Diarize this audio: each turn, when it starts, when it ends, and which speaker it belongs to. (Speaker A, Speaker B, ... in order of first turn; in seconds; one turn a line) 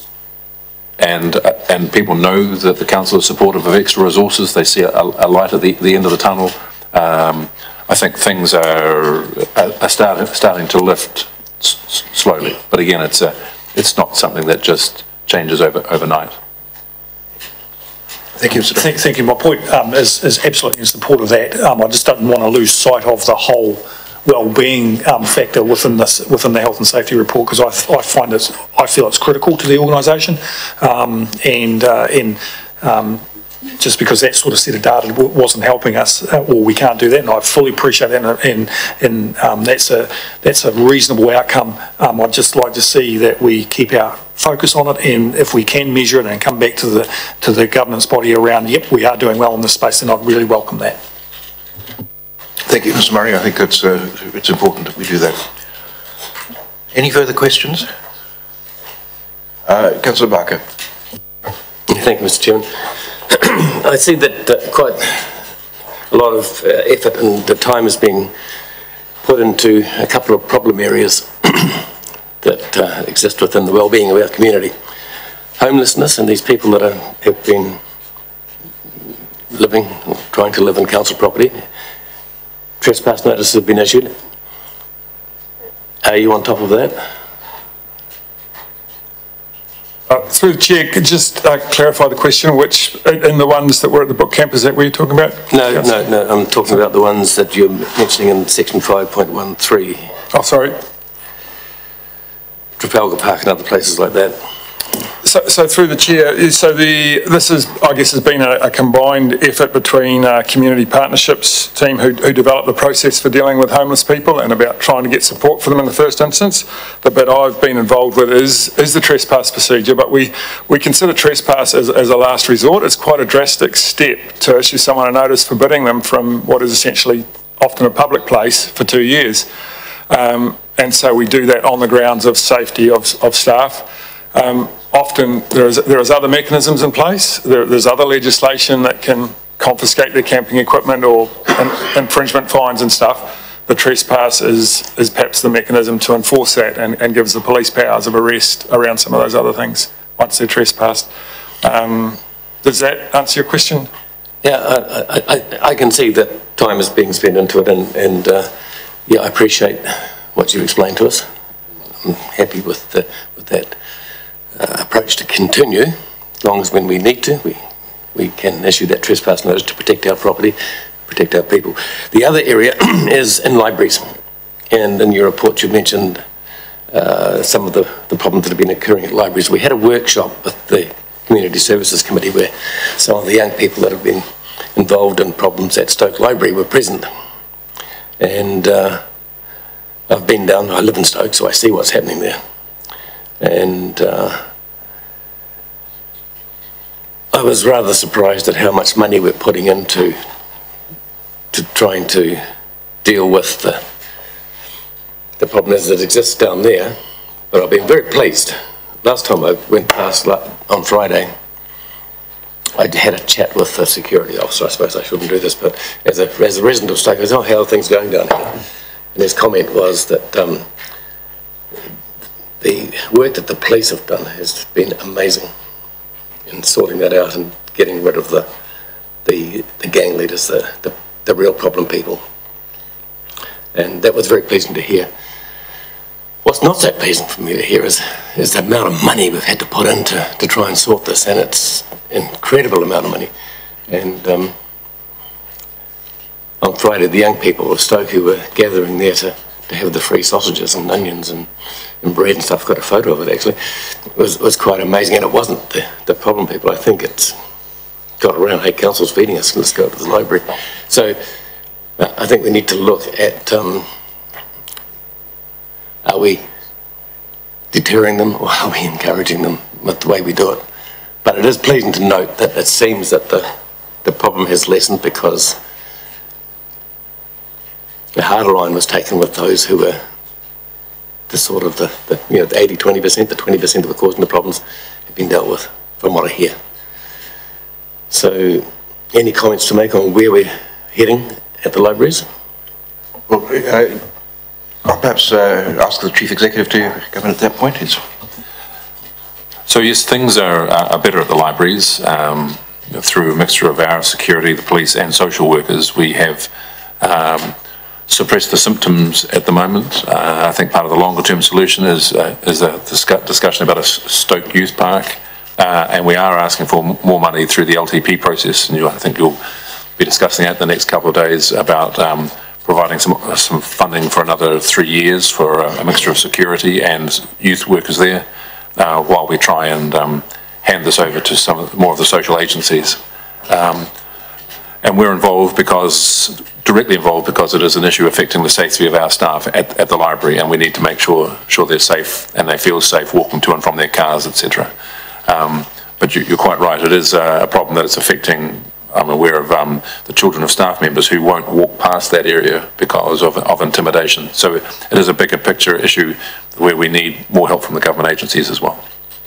Speaker A: 1.0-16.4
Speaker B: 18.4-18.9
Speaker C: 18.8-33.2
Speaker C: 33.8-51.0
Speaker B: 52.6-55.5
Speaker B: 56.9-57.9
Speaker B: 59.7-60.6
Speaker D: 61.9-62.7
Speaker D: 63.3-65.3
Speaker D: 66.1-68.3
Speaker D: 69.2-71.8
Speaker D: 72.4-74.7
Speaker D: 75.6-77.8
Speaker D: 79.5-81.5
Speaker D: 82.8-84.1
Speaker D: 86.0-87.0
Speaker E: 90.1-95.9
Speaker D: 95.5-100.1
Speaker E: 100.3-100.8
Speaker D: 102.8-104.4
Speaker E: 105.2-129.5
Speaker E: 130.1-151.1
Speaker E: 151.6-153.9
Speaker D: 154.4-158.5
Speaker D: 159.1-161.3
Speaker D: 162.0-163.8
Speaker D: 164.6-167.6
Speaker D: 168.2-170.6
Speaker D: 171.1-174.1
Speaker D: 174.7-176.2
Speaker D: 176.9-184.2
Speaker D: 184.8-187.1
Speaker D: 188.2-189.0
Speaker D: 190.1-192.4
Speaker D: 193.4-194.4
Speaker D: 197.3-200.2
Speaker D: 201.5-202.4
Speaker D: 203.0-203.8
Speaker D: 205.4-207.0
Speaker D: 207.5-211.3
Speaker D: 212.8-218.6
Speaker D: 219.2-220.7
Speaker D: 222.6-225.5
Speaker D: 226.5-228.5
Speaker D: 229.2-232.2
Speaker D: 233.7-235.1
Speaker D: 236.4-243.3
Speaker D: 243.9-244.5
Speaker D: 246.6-251.5
Speaker D: 252.0-253.6
Speaker D: 254.2-257.4
Speaker D: 258.2-261.2
Speaker D: 262.0-263.9
Speaker D: 266.0-266.5
Speaker D: 267.7-270.6
Speaker D: 271.2-273.5
Speaker D: 274.0-275.6
Speaker D: 278.1-280.0
Speaker D: 281.3-286.6
Speaker D: 288.1-292.2
Speaker B: 293.3-294.0
Speaker B: 294.9-298.0
Speaker A: 299.7-307.6
Speaker A: 308.1-319.4
Speaker A: 320.0-333.9
Speaker A: 334.8-344.7
Speaker A: 345.2-358.8